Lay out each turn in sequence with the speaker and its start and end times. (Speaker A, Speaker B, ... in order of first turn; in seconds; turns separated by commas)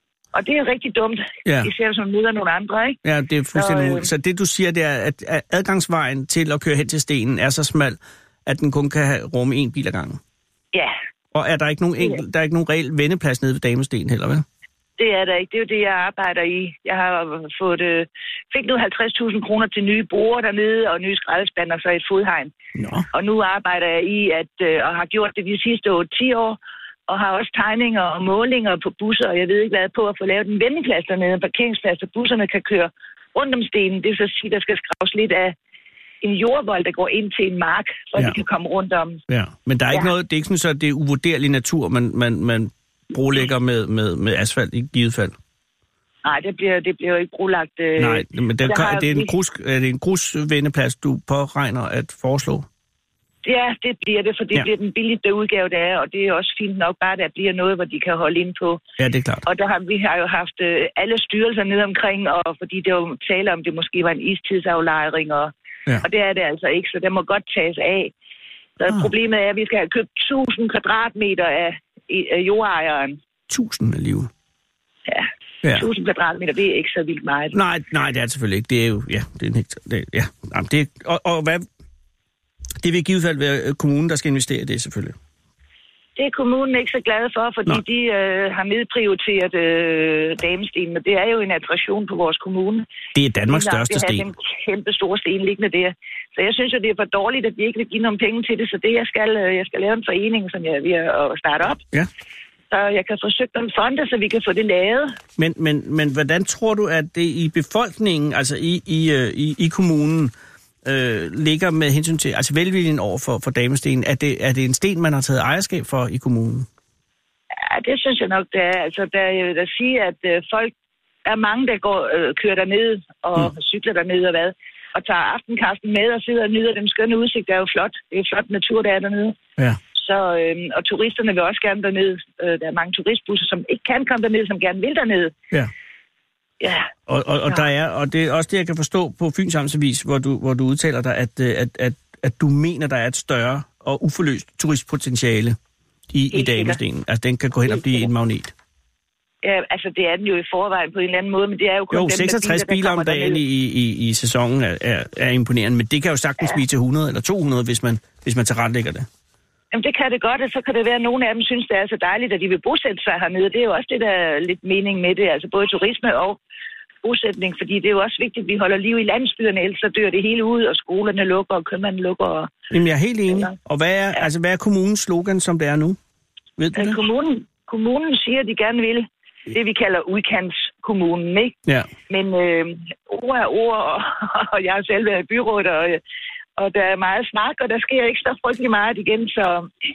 Speaker A: 0.3-3.0, Speaker B: 1.4-1.7, Speaker B: 3.0-10.2, Speaker A: 3.5-4.1, Speaker B: 11.3-14.4, Speaker A: 15.0-22.5, Speaker B: 22.8-23.1, Speaker A: 23.1-35.5, Speaker A: 36.2-39.2, Speaker B: 39.3-45.4, Speaker A: 46.2-49.3, Speaker B: 48.0-52.7, Speaker A: 53.4-58.8, Speaker B: 59.0-59.4, Speaker A: 59.4-68.1, Speaker A: 68.8-73.2, Speaker B: 73.5-74.3, Speaker A: 75.1-77.5, Speaker B: 77.5-81.7, Speaker B: 82.8-85.2, Speaker A: 86.2-92.9, Speaker B: 93.1-94.3, Speaker A: 93.5-101.8, Speaker A: 102.7-105.2, Speaker B: 105.4-110.3, Speaker B: 110.8-116.7, Speaker A: 117.6-120.7, Speaker A: 121.2-129.4, Speaker A: 129.9-135.3, Speaker A: 136.6-136.9, Speaker B: 137.1-145.6, Speaker B: 146.1-148.5, Speaker A: 146.3-146.8, Speaker A: 147.7-148.1, Speaker A: 149.4-153.4, Speaker B: 151.9-159.1, Speaker A: 159.7-166.4, Speaker A: 167.0-172.5, Speaker B: 172.7-176.0, Speaker B: 176.6-177.0, Speaker A: 176.7-181.6, Speaker A: 182.1-186.0, Speaker A: 186.6-189.7